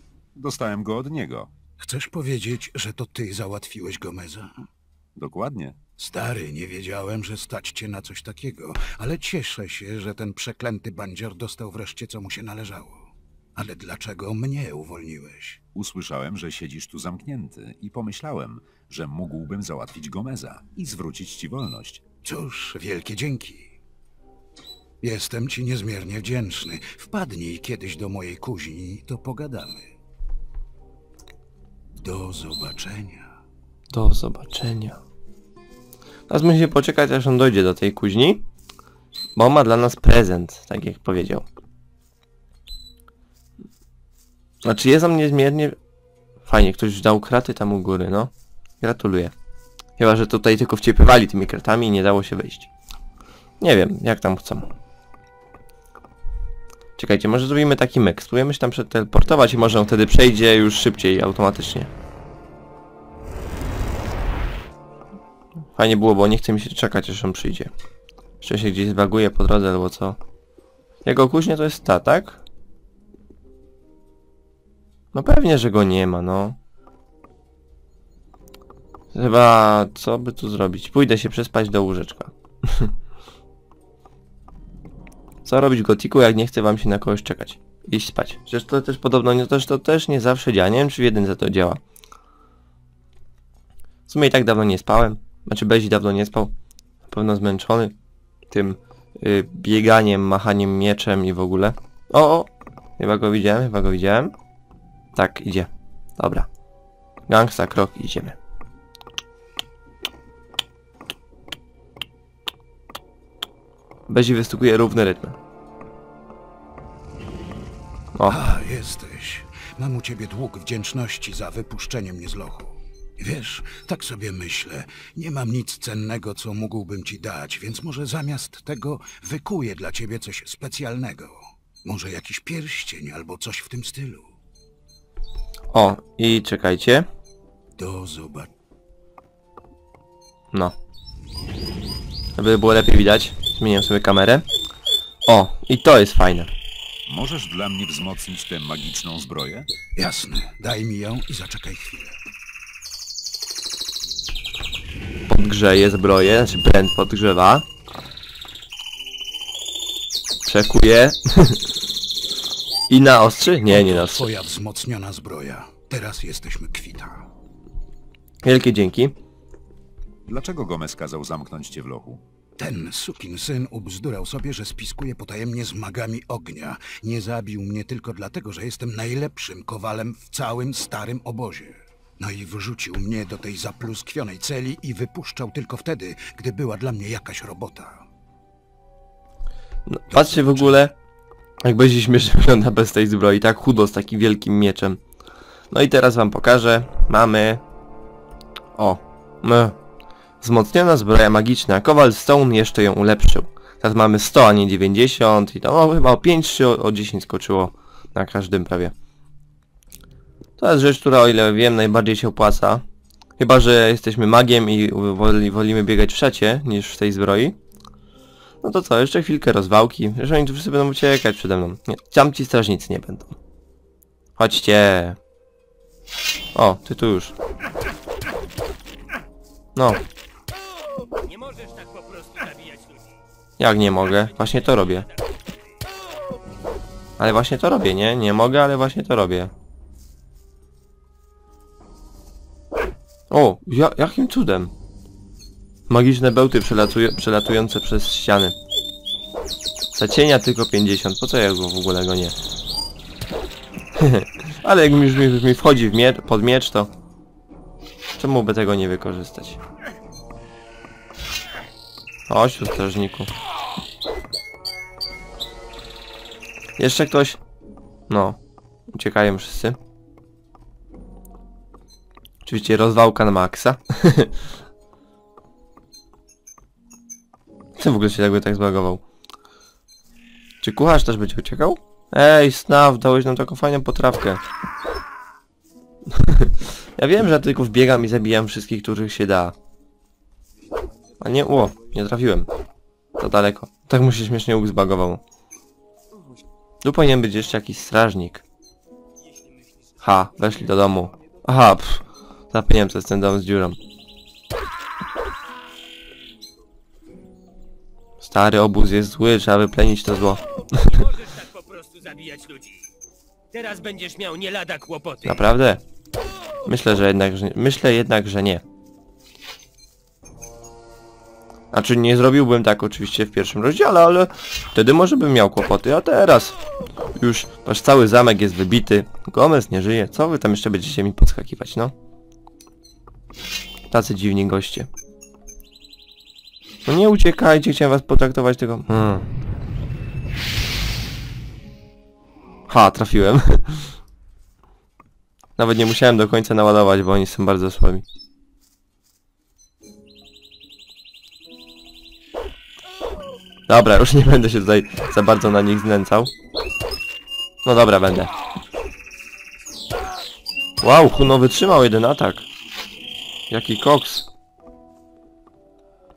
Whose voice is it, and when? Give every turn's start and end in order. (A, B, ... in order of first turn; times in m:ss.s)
0:00.4-0:01.5 A
0:01.8-0:04.5 B
0:05.2-0:05.8 A
0:06.0-0:13.0 B
0:13.6-0:15.6 B
0:15.8-0:22.0 A
0:22.2-0:23.8 B
0:25.0-0:29.8 B
0:32.0-0:33.3 B
0:33.9-0:35.0 C
0:36.3-0:38.4 C
0:39.4-0:41.5 C
0:44.6-0:45.8 C
0:46.5-0:49.3 C
0:50.0-0:52.7 C
0:53.6-0:54.7 C
0:57.0-1:01.9 C
1:05.8-1:07.7 C
1:08.4-1:10.2 C
1:11.0-1:12.4 C
1:15.1-1:16.6 C
1:19.1-1:22.9 C
1:25.4-1:31.8 C
1:34.1-1:36.5 C
1:37.1-1:37.9 C
1:38.5-1:44.4 C
1:45.2-1:46.5 C
1:47.3-1:48.4 C
1:54.1-1:55.4 C
1:58.3-2:14.3 B
2:15.7-2:17.1 C
2:17.8-2:18.5 B
2:22.4-2:24.5 C
2:25.3-2:26.5 C
2:27.1-2:29.7 A
2:30.0-2:32.2 B
2:35.3-2:37.7 C
2:40.5-2:41.6 C
2:42.9-2:44.3 C
2:43.7-2:47.3 B
2:48.4-2:49.1 C
2:50.3-2:52.2 A
2:52.6-3:08.0 B
3:09.9-3:11.0 C
3:10.1-3:10.8 B
3:11.6-3:15.0 C
3:15.7-3:17.6 C
3:18.8-3:19.8 C
3:20.4-3:28.9 C
3:30.6-3:32.8 C
3:33.4-3:37.6 C
3:38.6-3:43.4 C
3:44.4-3:45.2 C
3:46.5-3:47.3 C
3:49.8-3:50.0 C
3:51.2-3:53.2 D
3:53.6-3:55.1 C
3:54.2-3:55.3 D
3:57.2-3:59.5 C
4:03.3-4:04.7 C
4:05.9-4:08.6 C
4:09.9-4:12.4 C
4:14.0-4:16.9 C
4:18.2-4:19.6 C
4:22.3-4:23.3 C
4:26.8-4:27.4 C
4:28.1-4:28.4 C
4:28.9-4:29.8 C
4:32.4-4:34.4 C
4:37.8-4:39.0 C
4:40.6-4:44.4 C
4:46.1-4:49.6 C
4:51.2-4:52.5 C
4:53.2-4:55.2 C
4:56.8-4:58.4 C
5:00.0-5:03.8 C
5:08.2-5:11.0 C
5:10.8-5:12.9 D
5:13.5-5:15.4 D
5:15.2-5:15.8 C
5:16.7-5:18.6 C
5:21.7-5:26.6 C
5:27.2-5:31.9 C
5:33.9-5:34.9 C
5:36.9-5:39.3 C
5:42.7-5:44.0 C
5:45.6-5:48.0 C
5:53.7-5:56.3 C
5:57.6-5:58.3 C
6:00.8-6:02.5 C
6:03.5-6:04.3 C